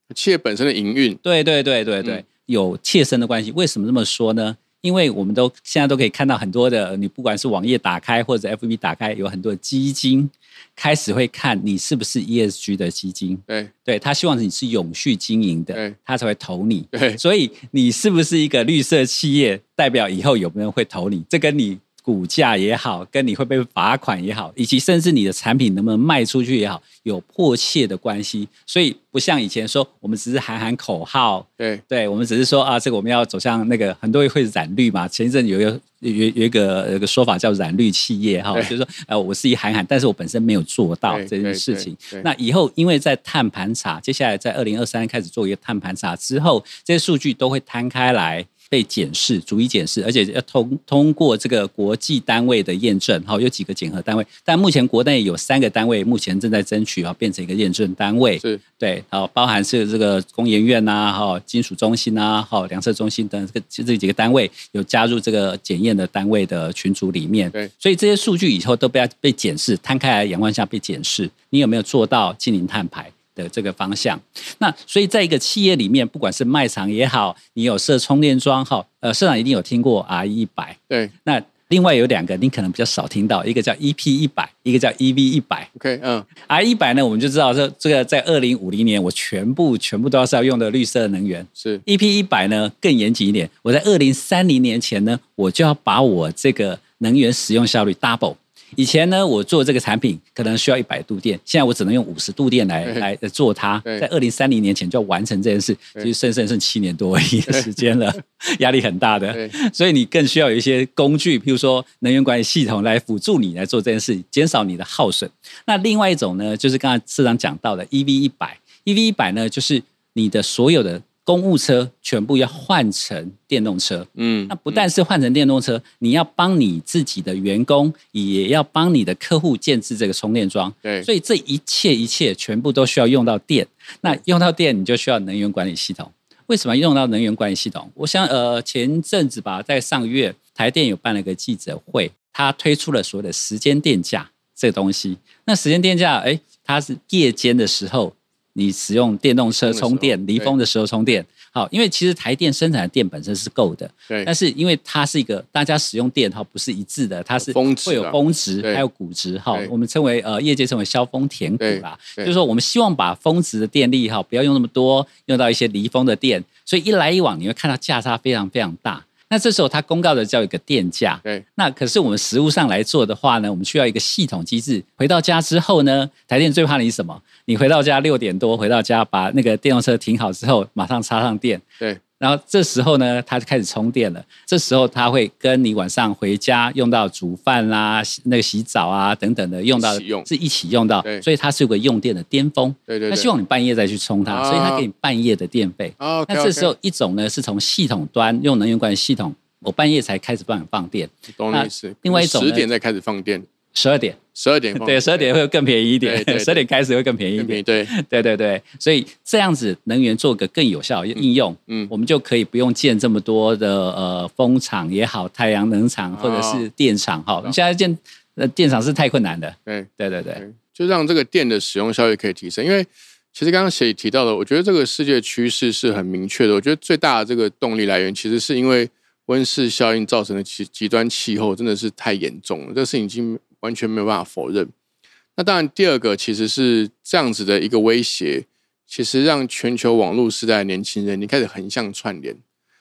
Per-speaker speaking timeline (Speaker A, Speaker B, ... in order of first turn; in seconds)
Speaker A: 0.1-1.2, 16.9-17.2, 41.1-42.2, 85.7-86.3, 124.2-124.8, 149.5-150.5, 157.4-158.8, 161.6-162.3, 189.8-190.3, 192.9-193.3, 194.3-194.9, 196.0-196.7, 201.3-203.5, 204.3-205.3, 206.0-206.6, 207.4-207.9, 211.2-211.9, 216.2-216.7, 219.7-234.7, 235.3-242.4
Speaker B: 1.2-85.7, 86.4-181.6, 182.2-202.7, 203.7-204.2, 204.7-220.4